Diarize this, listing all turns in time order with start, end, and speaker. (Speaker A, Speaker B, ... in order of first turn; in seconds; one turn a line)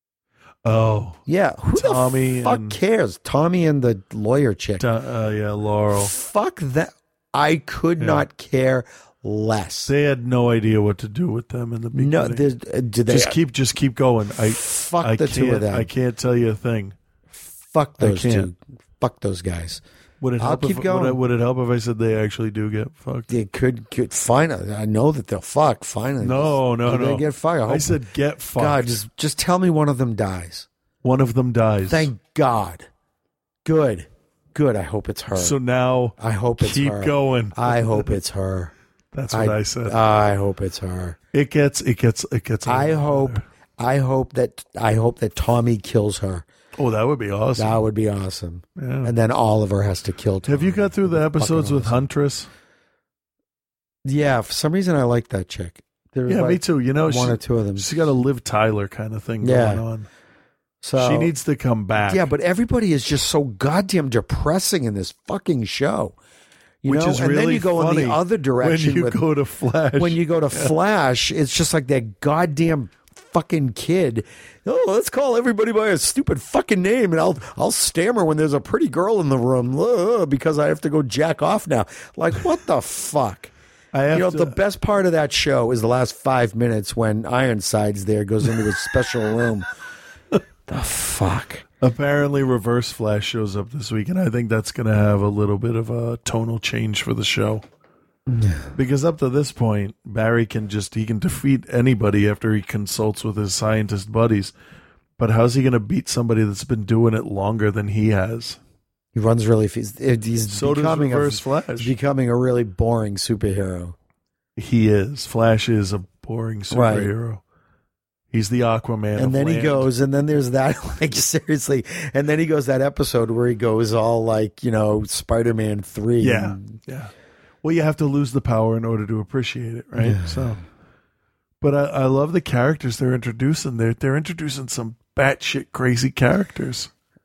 Speaker A: 0.7-1.2
Speaker B: 1.3-4.8
Speaker A: 1.8-2.8
Speaker A: 4.8-6.1
Speaker B: 5.9-9.9
Speaker A: 8.0-8.3
Speaker A: 9.9-12.4
Speaker B: 11.9-13.4
Speaker A: 13.1-16.9
Speaker B: 14.4-15.9
Speaker B: 17.3-19.8
Speaker A: 18.0-18.5
Speaker A: 20.2-23.3
Speaker B: 20.4-21.2
Speaker B: 23.3-28.0
Speaker A: 26.2-28.9
Speaker B: 28.6-30.7
Speaker A: 31.0-32.1
Speaker B: 31.9-32.9
Speaker B: 33.6-35.6
Speaker A: 35.3-38.2
Speaker B: 36.2-38.7
Speaker A: 39.1-40.0
Speaker B: 39.3-41.2
Speaker A: 41.3-43.5
Speaker B: 42.7-46.5
Speaker A: 46.8-47.8
Speaker B: 47.6-52.1
Speaker A: 48.8-49.1
Speaker A: 50.5-52.5
Speaker B: 54.0-58.0
Speaker A: 56.3-60.1
Speaker B: 59.4-59.9
Speaker B: 60.8-61.3
Speaker A: 61.0-62.3
Speaker B: 62.1-66.2
Speaker B: 66.8-69.2
Speaker A: 66.9-70.7
Speaker B: 70.0-83.5
Speaker A: 83.9-84.6
Speaker B: 84.1-89.7
Speaker B: 90.7-91.7
Speaker A: 91.8-97.6
Speaker B: 98.3-98.7
Speaker A: 98.8-104.5
Speaker A: 105.2-108.6
Speaker B: 109.1-114.0
Speaker A: 110.5-111.9
Speaker A: 114.6-117.4
Speaker B: 116.7-117.1
Speaker A: 118.3-119.9
Speaker B: 119.2-126.7
Speaker A: 126.2-127.1
Speaker A: 127.6-130.6
Speaker B: 130.0-130.6
Speaker A: 131.6-136.9